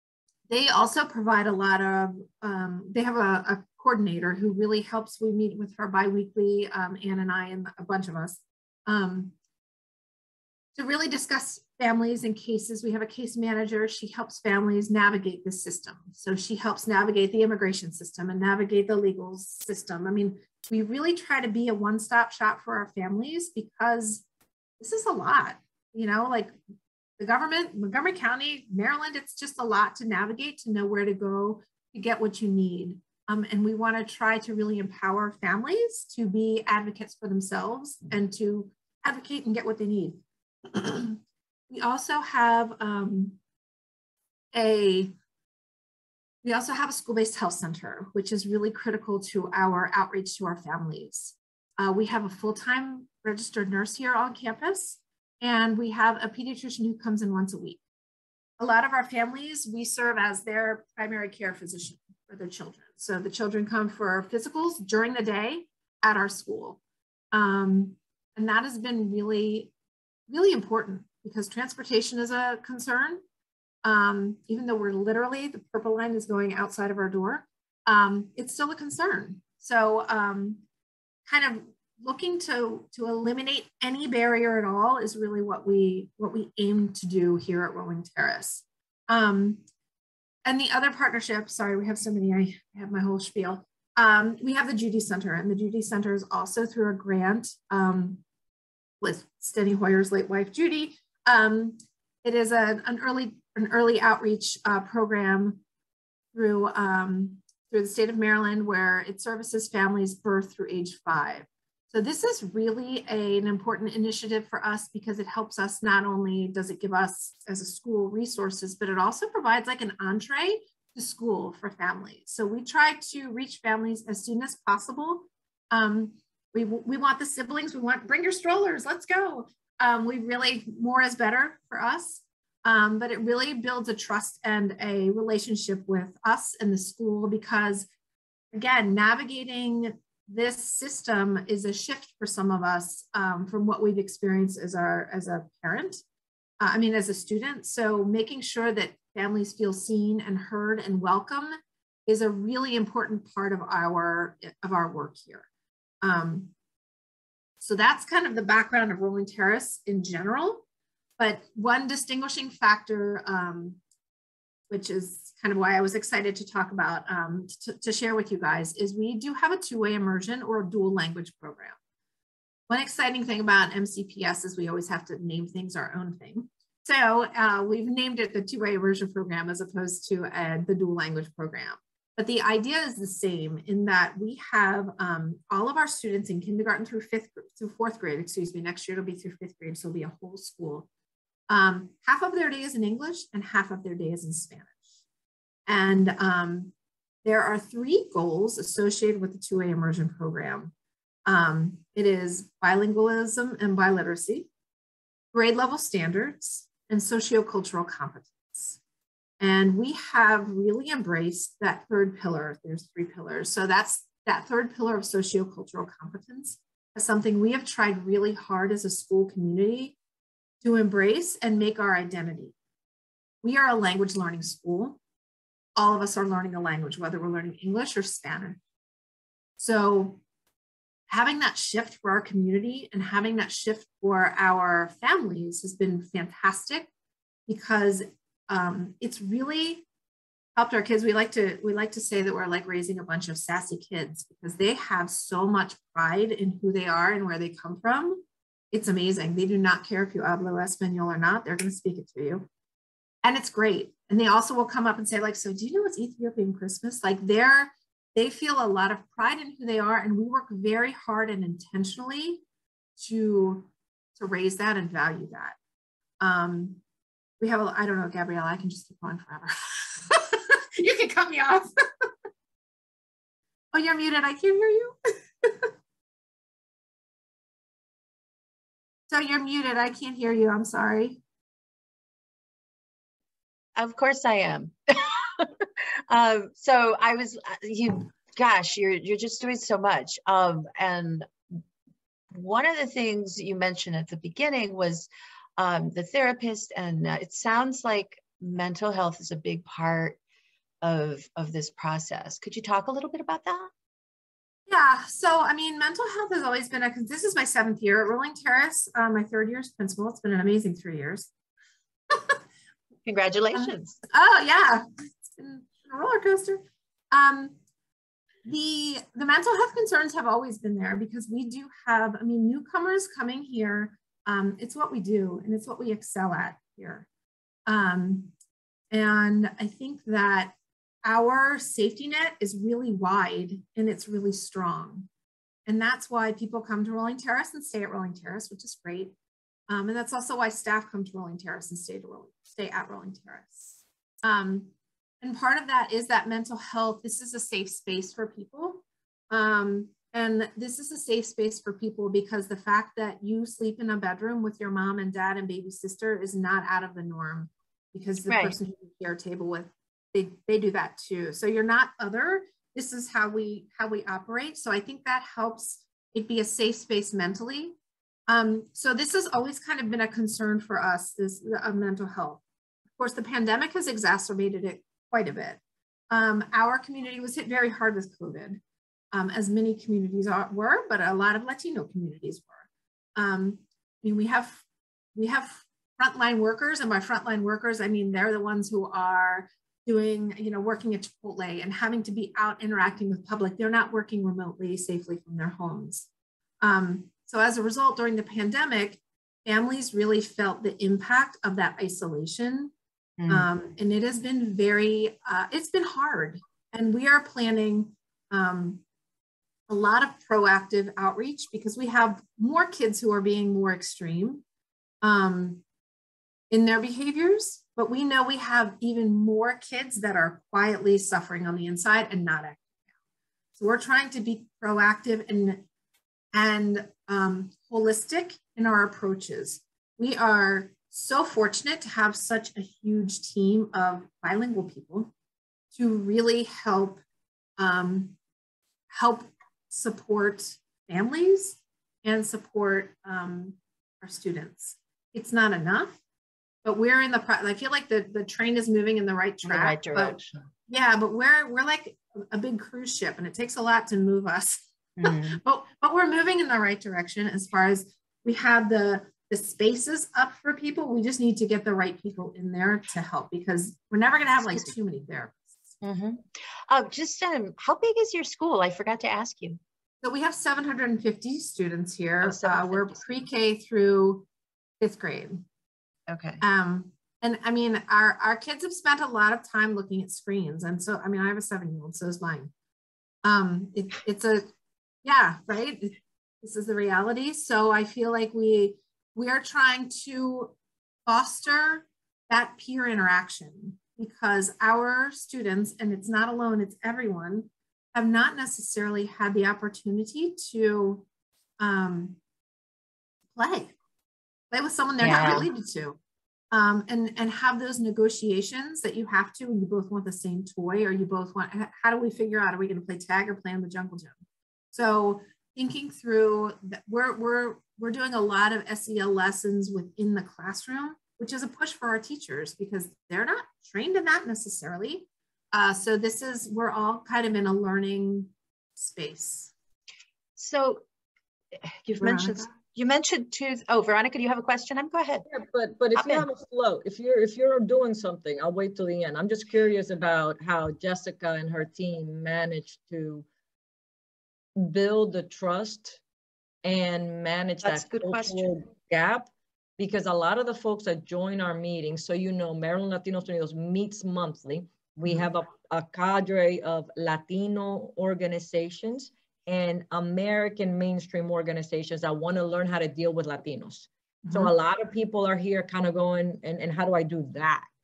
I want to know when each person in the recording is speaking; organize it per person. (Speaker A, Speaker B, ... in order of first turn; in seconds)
Speaker A: 0.5-9.3, 10.7-24.2, 24.8-26.6, 27.2-43.4, 44.5-45.1, 46.4-57.8, 58.6-66.8, 67.3-69.7, 70.3-73.2, 73.8-80.6, 81.3-89.6, 90.4-98.2, 99.0-105.6, 106.3-137.9, 138.5-146.0, 146.6-151.5, 152.1-155.4, 156.0-156.5, 157.6-160.6, 161.2-163.8, 164.7-171.8, 172.7-190.9, 191.5-194.7, 195.7-196.7, 197.2-200.7, 201.2-204.5, 205.3-208.8, 209.4-219.9, 220.6-222.5, 223.4-225.0, 225.8-228.6, 229.6-230.2, 231.1-236.9, 237.5-239.8, 240.5-252.5, 253.2-262.4, 263.0-265.6, 266.2-266.8, 267.4-271.7, 273.7-275.7, 279.1-281.2, 304.7-311.3, 313.5-317.6, 318.4-327.1, 327.7-328.3, 328.9-335.1, 335.6-339.1, 339.7-367.8, 368.3-372.4, 373.0-375.6, 376.1-378.6, 379.1-384.6, 385.1-396.1, 396.6-402.7, 403.3-408.8, 409.7-414.4, 415.0-415.6, 416.5-422.6, 423.5-425.6, 426.3-435.1, 435.7-437.0, 437.6-438.1, 438.9-446.0, 446.6-465.6, 470.0-474.2, 474.8-475.4, 476.4-482.5, 483.2-484.5, 485.0-490.5, 491.1-501.0, 501.6-502.2, 503.3-503.7, 504.5-506.0, 506.5-514.1, 514.7-529.5, 532.0-532.5
Speaker B: 283.8-291.3, 292.3-300.2, 300.8-303.7, 313.0-314.0, 358.2-358.6, 403.2-403.5, 449.4-450.4, 455.0-455.4, 465.8-469.6, 472.2-473.2, 476.1-476.4, 505.0-505.5, 530.4-530.8, 531.7-535.2, 535.9-536.3, 547.6-548.5
Speaker C: 535.3-543.2, 544.5-546.0, 546.6-567.7